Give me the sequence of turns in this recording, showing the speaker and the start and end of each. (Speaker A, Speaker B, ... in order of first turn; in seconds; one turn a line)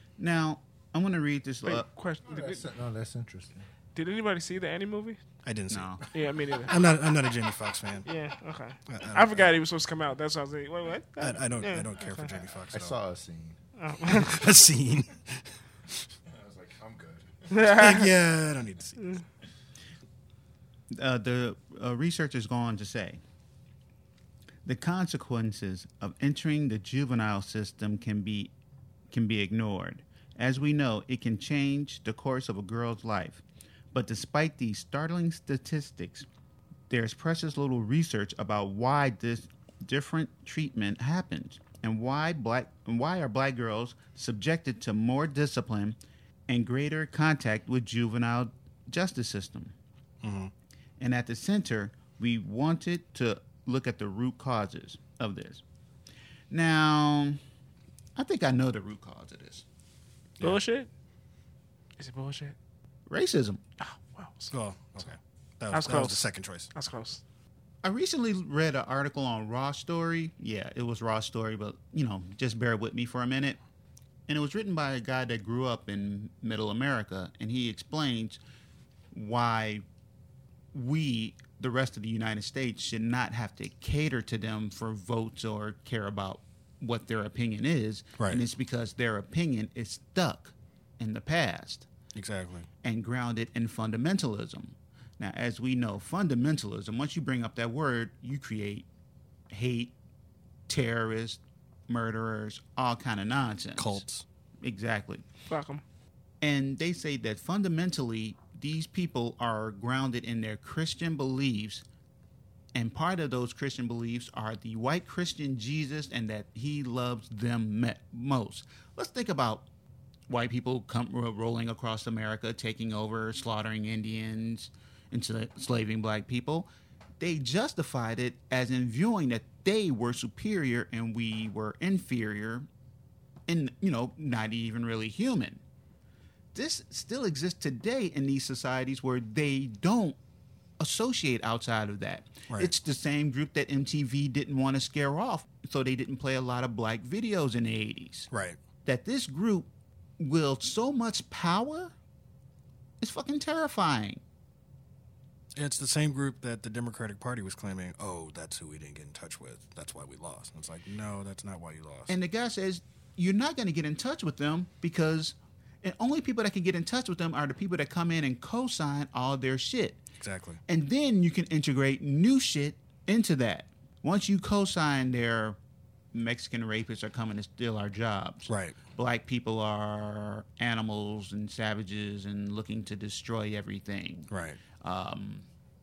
Speaker A: 0.2-1.9
Speaker B: 1.6-2.6
Speaker C: 2.2-3.7
Speaker B: 3.9-5.2
Speaker D: 5.4-6.0
Speaker A: 5.7-6.0
Speaker B: 6.1-6.7
Speaker D: 6.7-8.1
Speaker B: 8.0-12.3
Speaker D: 8.9-9.5
Speaker D: 11.2-13.0
Speaker C: 12.7-13.6
Speaker B: 13.8-14.3
Speaker D: 14.1-15.5
Speaker C: 16.3-17.5
Speaker B: 17.5-18.1
Speaker D: 17.7-19.1
Speaker A: 20.9-23.2
Speaker A: 24.6-28.5
Speaker A: 29.1-36.3
Speaker A: 36.9-46.0
Speaker A: 46.5-49.7
Speaker D: 50.2-50.5
Speaker A: 51.0-55.6
Speaker A: 56.5-57.4
Speaker A: 58.1-59.6
Speaker B: 60.4-60.9
Speaker B: 62.0-62.5
Speaker A: 63.1-63.6
Speaker B: 63.8-64.5
Speaker D: 64.5-66.7
Speaker B: 65.7-67.2
Speaker A: 67.8-73.6
Speaker A: 74.3-78.4
Speaker A: 79.1-79.8
Speaker A: 80.7-91.9
Speaker D: 88.2-88.4
Speaker D: 92.1-92.7
Speaker A: 92.8-98.9
Speaker A: 99.5-99.9
Speaker A: 100.7-104.0
Speaker D: 103.8-104.2
Speaker A: 104.6-105.2
Speaker B: 105.5-105.8
Speaker A: 106.4-111.8
Speaker A: 112.7-119.7
Speaker A: 120.3-126.7
Speaker A: 127.2-132.7
Speaker A: 133.5-135.6
Speaker A: 136.5-140.2
Speaker A: 140.8-148.3
Speaker D: 148.3-148.6
Speaker A: 148.8-149.7
Speaker A: 150.2-151.9
Speaker A: 153.0-154.2
Speaker D: 155.5-162.2
Speaker A: 162.1-170.0
Speaker D: 170.2-170.6
Speaker A: 170.7-175.6
Speaker A: 176.1-184.3
Speaker D: 178.5-178.8
Speaker D: 184.3-184.6
Speaker A: 184.8-185.4